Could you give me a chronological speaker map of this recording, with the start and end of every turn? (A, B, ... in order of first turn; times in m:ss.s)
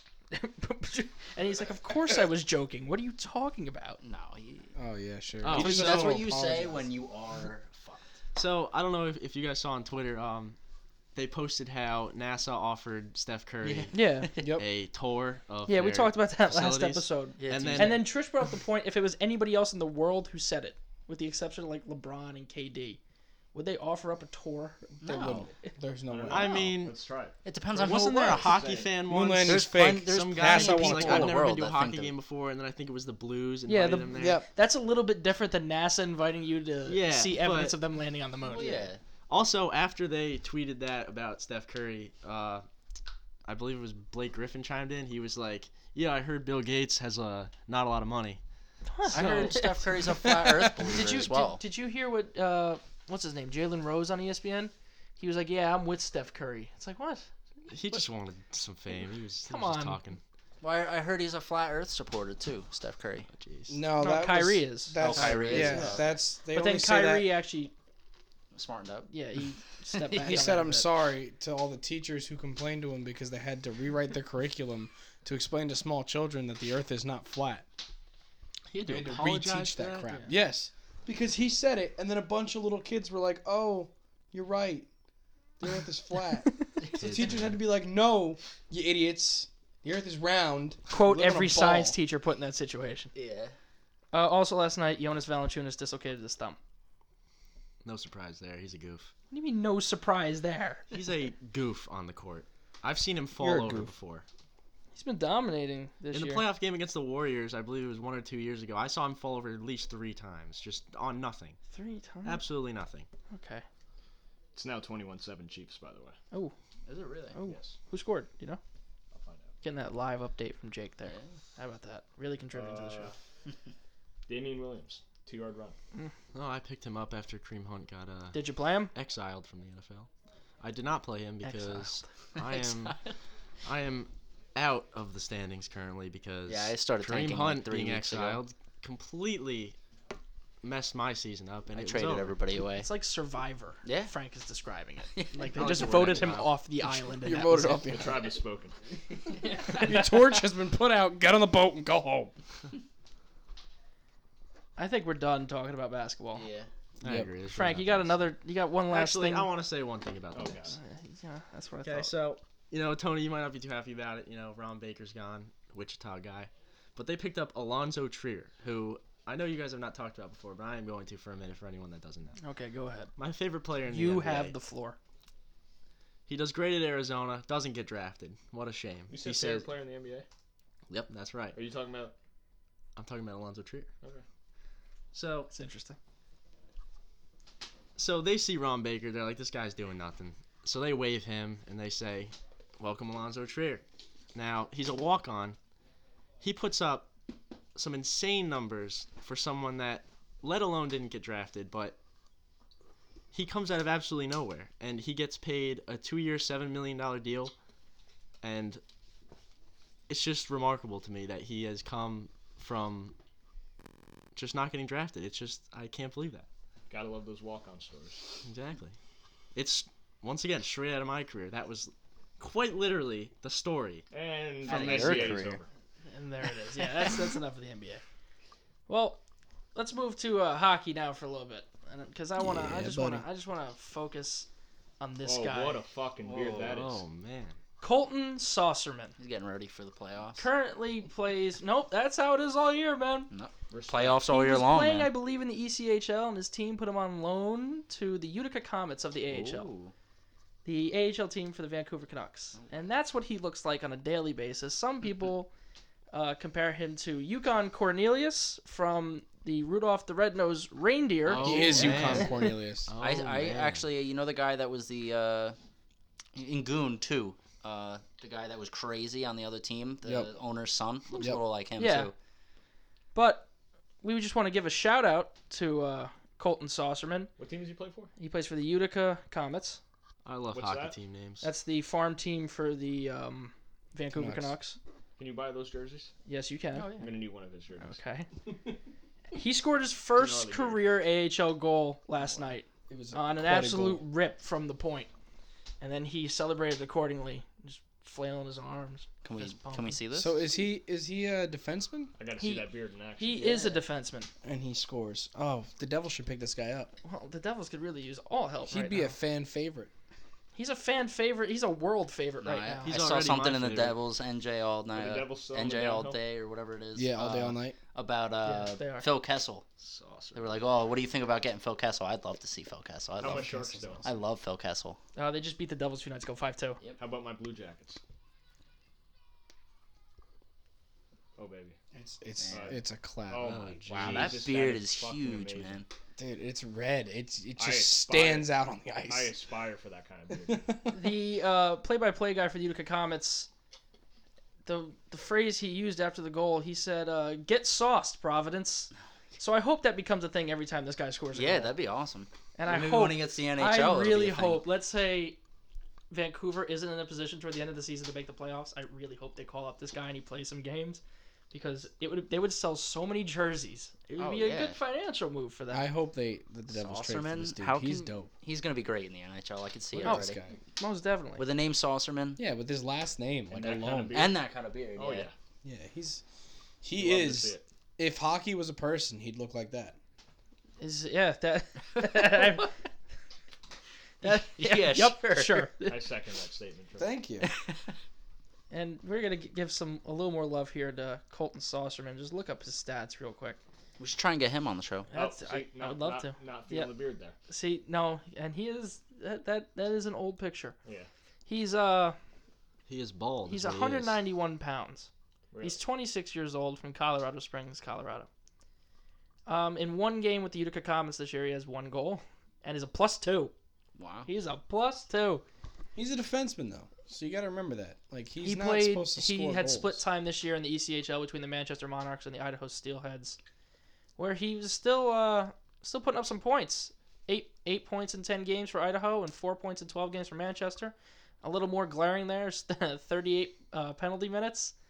0:00.3-0:04.0 A
0:04.0-0:04.7 B
0:04.8-0:06.9 C
0:05.4-0:06.2 D
0:05.4-0:08.1 B
0:08.3-0:10.6 D
0:11.1-0:14.0 D
0:13.6-0:14.2 B
0:13.9-0:14.4 A
0:14.4-0:14.6 C
0:14.6-0:18.0 D
0:15.7-0:23.0 A
0:17.4-0:18.0 B
0:23.5-0:24.9 A
0:25.0-0:26.5 C
0:25.0-0:25.5 B
0:26.1-0:27.4 E
0:26.3-0:27.0 D
0:27.4-0:28.7 B
0:27.7-0:34.4 D
0:28.3-0:29.0 E
0:29.1-0:31.4 C
0:29.4-0:32.1 B
0:33.7-0:38.8 A
0:34.1-0:34.5 C
0:36.9-0:37.8 D
0:38.4-0:39.0 B
0:39.3-0:42.6 D
0:43.4-0:48.4 D
0:48.8-0:57.3 A
0:49.1-0:51.6 B
0:49.1-0:49.5 D
0:57.7-1:00.2 D
0:59.5-1:00.0 A
1:00.6-1:03.3 B
1:03.4-1:03.8 D
1:03.7-1:07.3 C
1:04.0-1:07.7 A
1:05.0-1:06.1 B
1:05.2-1:05.8 D
1:08.5-1:09.1 B
1:09.1-1:10.9 A
1:09.9-1:10.5 B
1:10.2-1:17.7 C
1:18.7-1:20.2 D
1:18.8-1:24.9 C
1:25.6-1:32.0 C
1:26.8-1:27.2 B
1:27.0-1:27.6 D
1:30.9-1:33.1 A
1:33.1-1:33.5 B
1:34.1-1:36.6 A
1:37.8-1:39.1 D
1:39.3-1:40.9 A
1:40.9-1:44.2 D
1:43.4-1:43.9 C
1:44.9-1:46.5 A
1:46.1-1:51.6 D
1:51.7-1:52.4 A
1:52.2-1:53.1 D
1:53.3-1:53.6 A
1:54.5-1:56.2 E
1:56.8-1:57.4 B
1:57.3-1:58.6 A
1:57.4-1:57.8 E
1:59.1-1:59.5 E
1:59.6-2:03.1 A
2:01.0-2:01.4 B
2:02.5-2:03.2 E
2:04.3-2:05.8 E
2:06.3-2:10.1 D
2:08.3-2:08.9 A
2:10.6-2:13.0 D
2:11.4-2:12.0 A
2:12.6-2:12.9 B
2:13.6-2:19.8 D
2:16.5-2:18.4 B
2:20.6-2:22.4 D
2:21.7-2:22.9 B
2:22.8-2:28.0 A
2:23.8-2:24.1 B
2:25.1-2:25.9 B
2:25.5-2:26.5 D
2:27.0-2:28.3 C
2:27.9-2:28.8 E
2:29.3-2:30.4 A
2:29.7-2:32.3 C
2:34.8-2:36.5 A
2:36.3-2:36.7 B
2:37.0-2:38.3 D
2:37.0-2:37.3 C
2:37.5-2:39.5 A
2:38.9-2:40.7 D
2:40.3-2:40.8 E
2:40.7-2:42.1 A
2:41.8-2:52.4 D
2:52.4-2:53.1 A
2:53.2-2:54.5 D
2:53.8-2:55.0 A
2:56.3-2:59.7 D
2:59.1-3:00.2 E
3:00.9-3:01.6 D
3:01.5-3:02.1 E
3:03.0-3:03.9 D
3:05.1-3:05.5 D
3:05.5-3:06.0 A
3:08.0-3:15.6 D
3:16.4-3:17.1 D
3:17.7-3:22.0 D
3:23.3-3:27.5 D
3:28.4-3:28.8 D
3:30.1-3:33.1 D
3:34.3-3:36.5 D
3:36.9-3:38.3 E
3:38.4-3:39.0 D
3:39.5-3:44.0 D
3:44.1-3:45.7 E
3:44.6-3:45.6 B
3:44.7-3:45.0 A
3:45.0-3:45.2 D
3:46.1-3:48.0 A
3:48.9-3:49.2 A
3:49.7-3:54.5 A
3:52.4-3:53.2 C
3:55.0-3:55.8 A
3:55.2-3:57.0 E
3:56.2-3:56.8 B
3:56.6-3:57.6 D
3:57.8-3:59.1 A
3:59.2-4:00.5 B
4:00.4-4:03.3 A
4:03.3-4:05.1 B
4:03.7-4:04.2 E
4:04.3-4:09.7 A
4:09.3-4:09.9 B
4:10.6-4:15.5 A
4:12.5-4:12.9 B
4:16.1-4:22.6 A
4:21.2-4:22.3 D
4:21.4-4:22.9 C
4:21.8-4:22.2 B
4:22.9-4:23.8 D
4:23.0-4:25.6 B
4:26.3-4:32.1 B
4:30.0-4:30.3 C
4:31.8-4:32.1 A
4:33.1-4:33.5 A
4:34.0-4:37.3 A
4:37.4-4:38.1 E
4:38.2-4:39.8 A
4:40.2-4:41.5 D
4:40.5-4:41.0 E
4:41.4-4:44.8 A
4:44.1-4:44.5 C
4:45.2-4:46.1 E
4:46.2-4:47.1 A
4:46.8-4:47.0 B
4:46.9-4:48.0 E
4:47.8-4:48.3 A
4:49.3-4:55.1 A
4:50.1-4:51.0 E
4:52.9-4:54.0 C
4:55.8-5:00.0 A
4:59.2-5:00.4 B
5:00.1-5:02.1 C
5:02.2-5:03.6 E
5:02.4-5:04.3 A
5:03.4-5:03.8 B
5:04.4-5:06.9 C
5:07.0-5:09.2 A
5:08.6-5:09.9 C
5:10.5-5:12.9 A
5:12.4-5:19.7 B
5:12.8-5:14.0 D
5:14.9-5:16.2 E
5:16.9-5:17.8 C
5:18.4-5:19.1 A
5:19.8-5:20.7 E
5:20.3-5:23.5 B
5:23.2-5:24.1 E
5:23.2-5:24.1 C
5:24.0-5:25.0 B
5:25.2-5:26.8 A
5:27.0-5:28.0 E
5:31.4-5:31.8 E
5:32.0-5:33.6 C
5:32.4-5:32.7 B
5:32.5-5:35.8 E
5:33.4-5:34.4 D
5:33.9-5:35.9 B
5:36.2-5:39.4 C
5:37.6-5:38.5 E
5:39.1-5:40.7 E
5:40.3-5:41.0 C
5:40.9-5:43.5 A
5:44.6-5:51.7 A
5:51.3-5:54.6 B
5:52.6-5:55.4 A
5:56.1-6:05.9 A
6:04.2-6:04.8 B
6:05.7-6:08.3 C
6:06.7-6:10.4 B
6:09.9-6:10.6 C
6:10.0-6:11.4 A
6:11.4-6:12.4 B
6:12.4-6:14.3 C
6:13.5-6:15.3 E
6:14.1-6:15.3 B
6:15.6-6:16.2 C
6:16.8-6:20.0 C
6:16.9-6:17.6 E
6:20.8-6:22.7 A
6:22.0-6:22.7 B
6:24.2-6:25.7 B
6:24.2-6:26.0 A
6:25.8-6:27.1 E
6:27.0-6:27.5 C
6:27.4-6:27.9 B
6:28.7-6:33.6 A
6:34.0-6:35.1 B
6:35.1-6:36.9 A
6:35.1-6:37.4 E
6:37.5-6:40.8 A
6:41.5-6:42.2 A
6:42.9-6:44.2 D
6:43.4-6:45.1 A
6:45.5-6:45.8 E
6:45.6-6:48.3 A
6:49.4-6:53.5 A
6:54.0-6:54.3 B
6:54.2-6:55.4 A
6:56.0-7:00.0 C
6:58.4-7:03.4 A
7:04.2-7:14.7 A